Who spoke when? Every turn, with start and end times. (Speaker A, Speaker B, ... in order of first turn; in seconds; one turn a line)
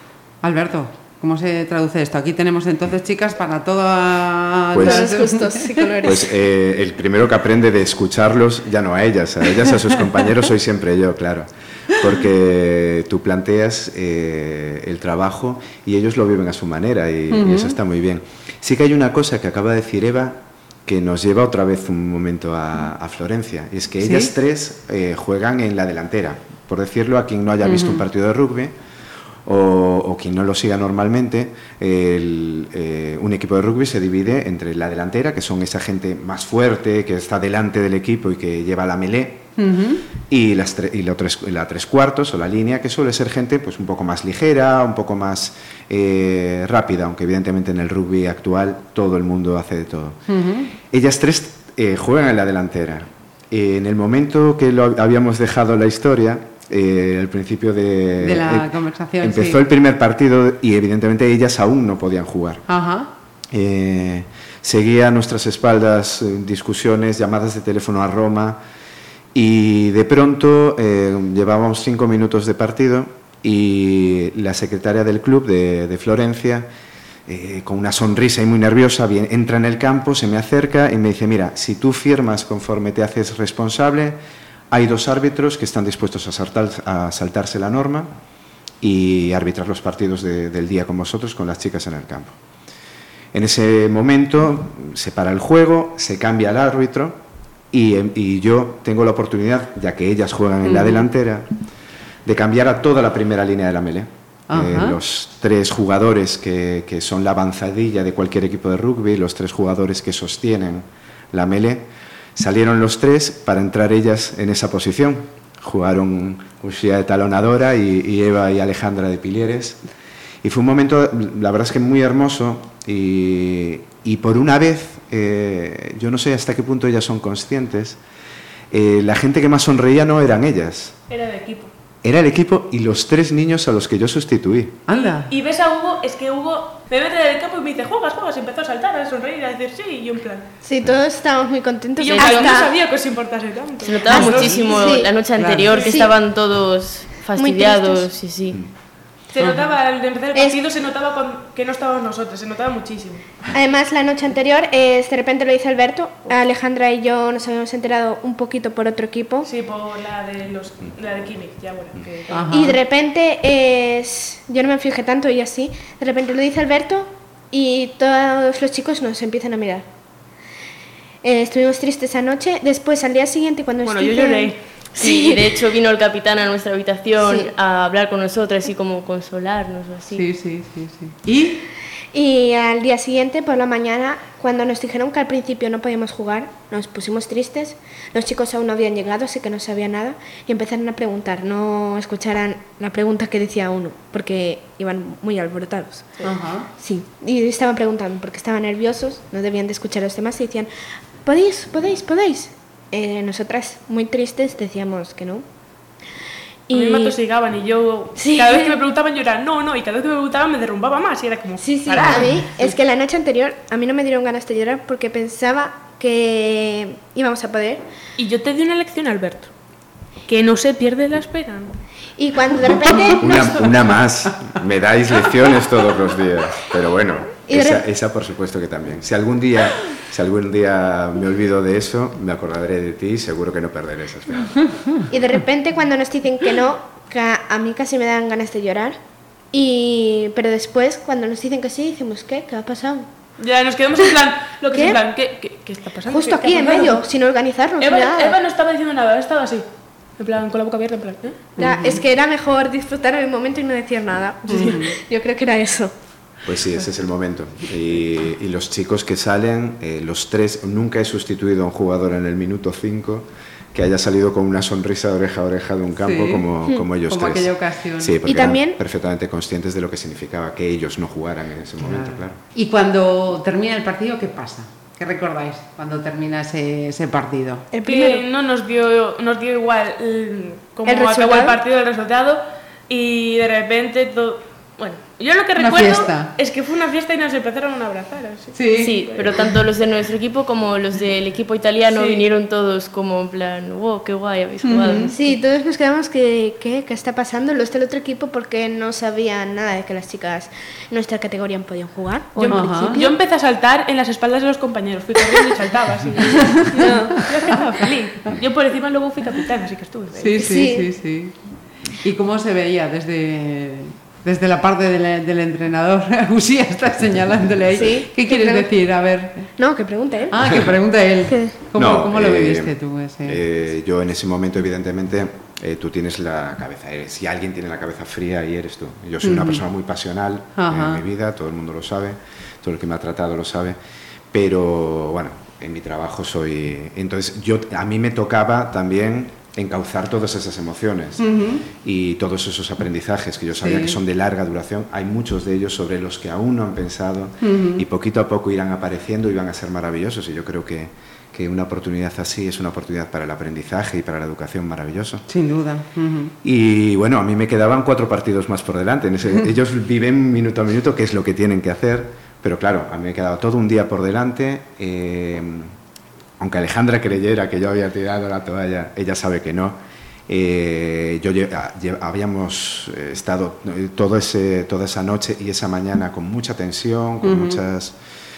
Speaker A: 0.4-6.1
Speaker B: 4.7-5.1
Speaker C: 4.8-6.3
Speaker B: 6.0-28.7
Speaker A: 17.3-17.8
Speaker A: 24.0-24.3
Speaker A: 27.6-28.0
Speaker B: 29.4-39.5
Speaker A: 39.6-40.0
Speaker B: 40.2-50.2
Speaker A: 50.3-50.7
Speaker B: 50.8-62.6
Speaker A: 58.2-59.6
Speaker A: 62.7-63.1
Speaker B: 63.5-68.6
Speaker B: 69.3-76.7
Speaker B: 77.2-84.2
Speaker B: 84.7-88.1
Speaker B: 88.8-92.4
Speaker B: 93.3-97.2
Speaker B: 97.7-101.5
Speaker A: 100.6-101.0
Speaker B: 102.2-119.8
Speaker A: 104.5-105.0
Speaker B: 120.4-128.0
Speaker B: 128.7-131.0
Speaker D: 131.1-131.7
Speaker B: 132.0-134.8
Speaker A: 134.9-135.3
Speaker D: 134.9-140.5
Speaker C: 140.6-142.7
Speaker D: 142.0-145.1
Speaker E: 143.8-148.6
Speaker C: 144.1-146.1
Speaker A: 145.4-145.7
Speaker D: 145.7-146.1
Speaker C: 147.4-148.1
Speaker D: 149.3-153.4
Speaker C: 153.5-159.5
Speaker D: 159.4-162.7
Speaker A: 162.3-162.8
Speaker C: 162.5-169.9
Speaker C: 171.2-175.5
Speaker D: 173.8-174.6
Speaker E: 174.9-180.2
Speaker C: 177.2-177.5
Speaker A: 180.1-181.6
Speaker C: 182.1-196.2
Speaker A: 196.2-196.7
Speaker C: 196.8-200.7
Speaker C: 201.2-205.4
Speaker C: 206.7-207.2
Speaker D: 206.7-212.8
Speaker C: 208.2-208.8
Speaker C: 211.6-217.8
Speaker D: 218.2-219.5
Speaker D: 220.3-221.8
Speaker C: 222.2-223.8
Speaker B: 223.2-234.6
Speaker C: 227.5-227.8
Speaker C: 235.1-239.0
Speaker C: 239.5-243.1
Speaker D: 243.4-247.0
Speaker C: 244.7-245.0
Speaker C: 246.1-248.4
Speaker D: 247.8-249.7
Speaker D: 250.2-251.5
Speaker A: 251.6-252.0
Speaker C: 251.6-255.9
Speaker A: 254.5-255.0
Speaker B: 256.4-272.4
Speaker A: 266.0-266.4
Speaker A: 267.0-268.2
Speaker C: 268.2-268.8
Speaker A: 271.8-277.7
Speaker C: 277.7-278.2
Speaker D: 277.8-289.3
Speaker C: 280.9-281.6
Speaker A: 285.6-286.3
Speaker A: 288.5-289.0
Speaker E: 288.7-295.4
Speaker D: 291.8-292.2
Speaker A: 294.6-295.1
Speaker C: 295.1-303.1
Speaker D: 302.4-310.3
Speaker A: 302.5-303.0
Speaker A: 306.4-307.3
Speaker C: 306.7-307.2
Speaker A: 310.2-319.5
Speaker C: 310.2-310.9
Speaker C: 317.7-318.7
Speaker C: 319.6-320.5
Speaker A: 320.3-323.4
Speaker C: 321.3-321.5
Speaker B: 321.7-322.7
Speaker B: 323.2-333.8
Speaker A: 329.2-329.6
Speaker A: 330.6-331.0
Speaker B: 334.3-355.2
Speaker A: 341.2-341.7
Speaker A: 343.6-344.0
Speaker A: 347.4-347.8
Speaker A: 355.3-356.3
Speaker B: 356.4-365.7
Speaker B: 366.4-378.0
Speaker A: 377.2-377.6